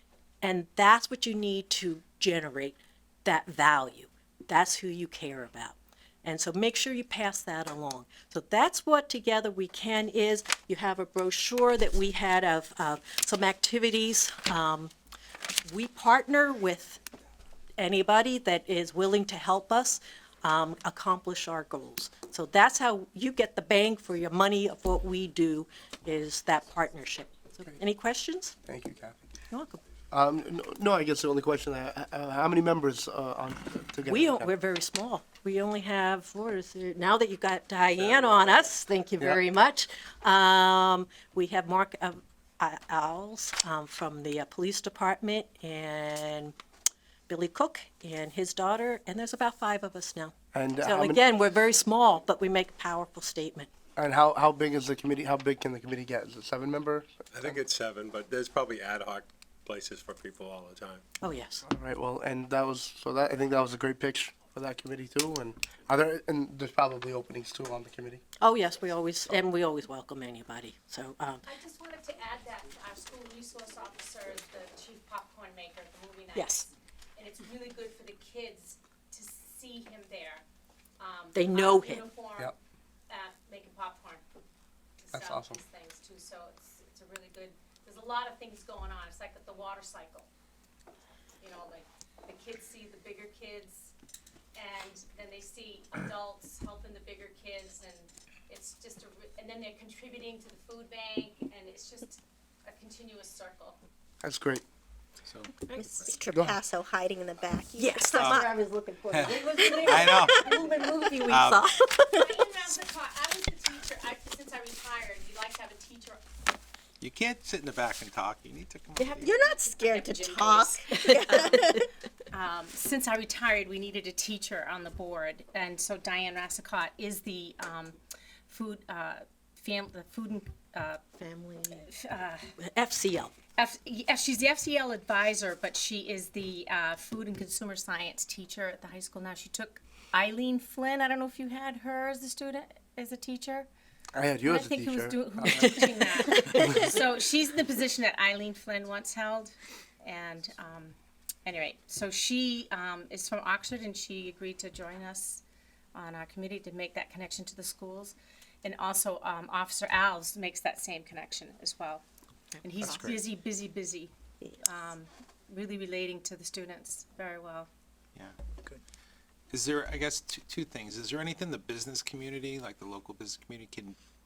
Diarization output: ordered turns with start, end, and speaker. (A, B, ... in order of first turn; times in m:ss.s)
0:00.4-0:14.9 A
0:15.6-0:17.0 A
0:17.8-0:28.5 A
0:28.6-0:29.3 B
0:29.5-0:29.8 A
0:30.1-0:34.5 B
0:34.0-0:46.5 A
0:47.3-0:53.7 A
0:50.5-0:51.2 B
0:54.0-0:57.5 B
0:57.3-1:01.0 C
1:01.2-1:01.6 A
1:01.6-1:08.2 B
1:08.4-1:11.4 A
1:11.4-1:20.4 D
1:16.3-1:16.7 A
1:21.0-1:22.5 D
1:21.3-1:22.1 A
1:23.1-1:24.2 D
1:25.0-1:30.3 D
1:25.1-1:25.6 B
1:31.4-1:33.9 D
1:34.5-1:43.8 D
1:44.2-1:44.6 B
1:45.2-1:46.1 E
1:45.7-1:48.5 F
1:46.3-1:46.6 B
1:47.8-1:52.2 A
1:48.1-1:48.4 E
1:48.2-1:51.3 D
1:49.1-1:50.5 E
1:49.9-1:50.6 F
1:51.2-1:51.7 E
1:52.0-1:56.2 D
1:57.0-1:59.4 E
1:59.2-2:01.9 F
1:59.2-2:01.8 D
2:01.0-2:01.8 A
2:02.3-2:11.1 D
2:11.2-2:11.6 A
2:11.7-2:12.5 D
2:12.6-2:13.3 A
2:13.6-2:23.7 D
2:24.1-2:25.7 B
2:24.4-2:35.4 D
2:25.5-2:26.9 A
2:26.6-2:26.9 B
2:35.9-2:42.0 D
2:42.6-2:47.7 D
2:42.8-2:43.2 E
2:49.5-2:54.0 E